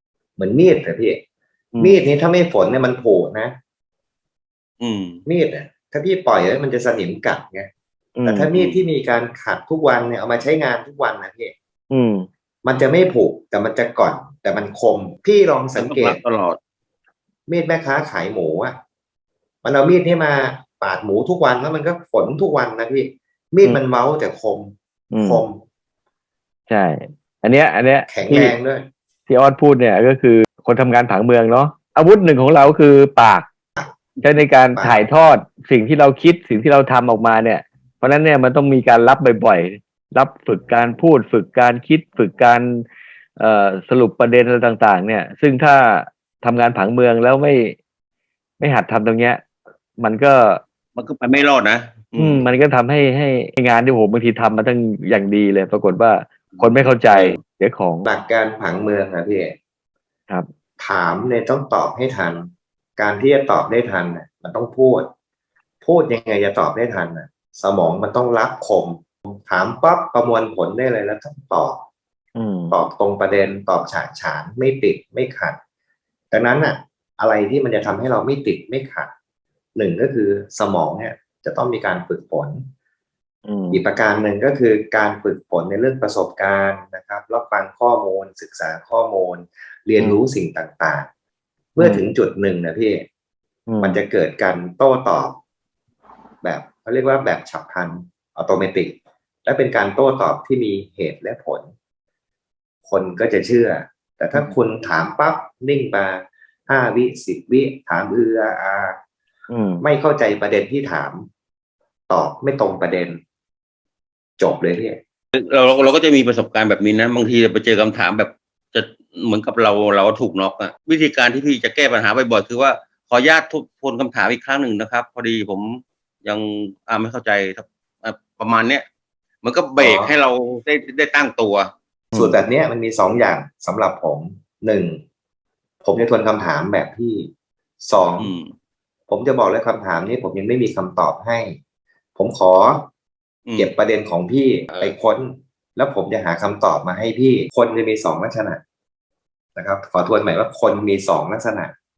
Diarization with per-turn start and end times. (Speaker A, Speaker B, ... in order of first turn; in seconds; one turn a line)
Speaker A: 0.4-1.2
Speaker A: 1.8-3.5
Speaker B: 4.8-5.2
Speaker A: 5.2-7.7
Speaker C: 8.2-8.5
Speaker A: 8.2-11.5
Speaker B: 8.5-8.8
Speaker C: 11.9-12.3
Speaker A: 12.6-16.2
Speaker B: 15.8-16.6
Speaker A: 17.5-18.8
Speaker A: 19.6-25.6
Speaker C: 25.1-25.4
Speaker C: 26.7-28.6
Speaker A: 28.1-28.9
Speaker C: 29.3-33.5
Speaker C: 34.2-42.9
Speaker A: 34.8-35.0
Speaker C: 43.4-47.8
Speaker C: 48.6-49.4
Speaker C: 50.0-50.6
Speaker B: 51.0-52.5
Speaker C: 52.2-58.0
Speaker B: 56.5-57.4
Speaker A: 58.0-59.5
Speaker A: 60.8-65.1
Speaker A: 65.8-71.8
Speaker C: 72.3-72.8
Speaker A: 72.7-75.6
Speaker A: 76.3-79.1
Speaker A: 79.7-82.7
Speaker C: 83.5-83.8
Speaker A: 83.7-91.1
Speaker A: 91.7-93.0
Speaker C: 91.8-92.1
Speaker C: 93.7-94.0
Speaker A: 93.8-95.4
Speaker A: 96.4-101.7
Speaker A: 102.8-109.0
Speaker C: 109.5-109.8
Speaker A: 109.8-111.2
Speaker A: 112.1-113.2
Speaker A: 114.4-115.0
Speaker B: 115.3-128.8
Speaker B: 129.4-132.3
Speaker A: 129.8-130.1
Speaker A: 132.1-135.0
Speaker A: 135.8-138.3
Speaker B: 138.2-138.5
Speaker A: 139.1-141.6
Speaker A: 142.2-142.9
Speaker B: 143.4-143.7
Speaker A: 143.6-148.6
Speaker A: 149.5-151.7